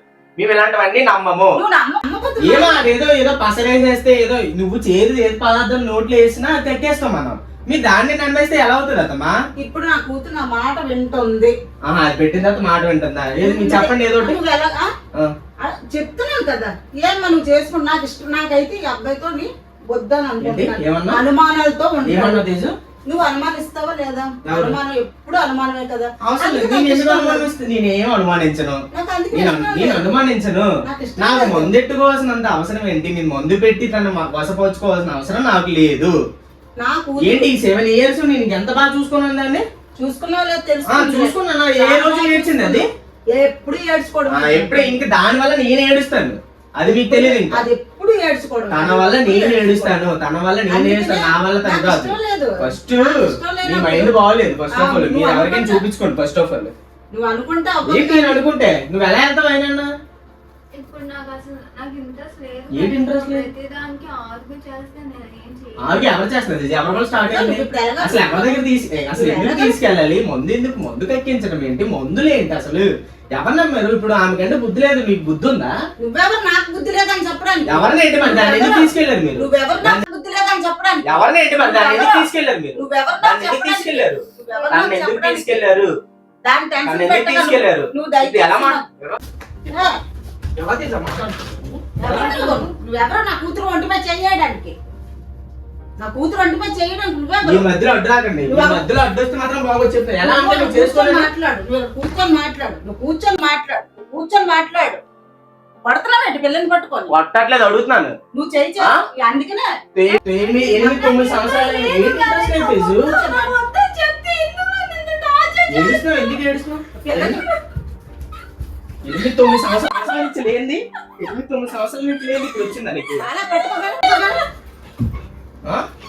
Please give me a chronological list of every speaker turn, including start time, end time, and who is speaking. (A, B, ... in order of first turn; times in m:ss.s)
0:00.4-0:01.6 A
0:01.5-0:02.9 B
0:02.4-0:09.3 A
0:09.6-0:11.5 B
0:11.9-0:14.4 A
0:13.4-0:14.9 B
0:15.6-0:22.4 B
0:20.4-0:21.2 A
0:22.0-0:22.7 A
0:23.0-0:27.5 B
0:24.4-0:24.8 A
0:26.2-0:36.2 A
0:28.9-0:30.1 B
0:30.8-0:31.7 B
0:36.8-0:37.5 B
0:37.2-0:39.6 A
0:40.0-0:45.0 B
0:40.9-0:42.9 A
0:44.3-0:47.6 A
0:47.1-0:50.1 B
0:48.7-0:56.7 A
0:50.7-0:54.1 B
0:54.7-0:55.8 B
0:57.1-0:58.4 B
0:57.9-0:59.9 A
1:00.7-1:06.2 C
1:02.7-1:03.5 A
1:05.8-1:15.7 A
1:07.3-1:08.6 B
1:09.1-1:09.8 B
1:16.0-1:25.6 B
1:17.7-1:20.0 A
1:21.0-1:25.9 A
1:26.4-1:28.8 B
1:26.9-1:29.2 A
1:29.6-1:29.9 B
1:30.6-1:32.6 A
1:32.0-1:34.8 B
1:36.0-1:37.7 B
1:37.4-1:41.3 A
1:38.5-1:38.9 B
1:40.2-1:45.0 B
1:45.8-1:47.1 B
1:47.1-1:48.2 A
1:48.3-1:49.8 B
1:50.0-1:53.1 A
1:50.4-1:56.4 B
1:55.7-1:57.4 A
1:57.0-1:57.5 B
1:59.0-2:03.2 A
2:03.2-2:04.4 B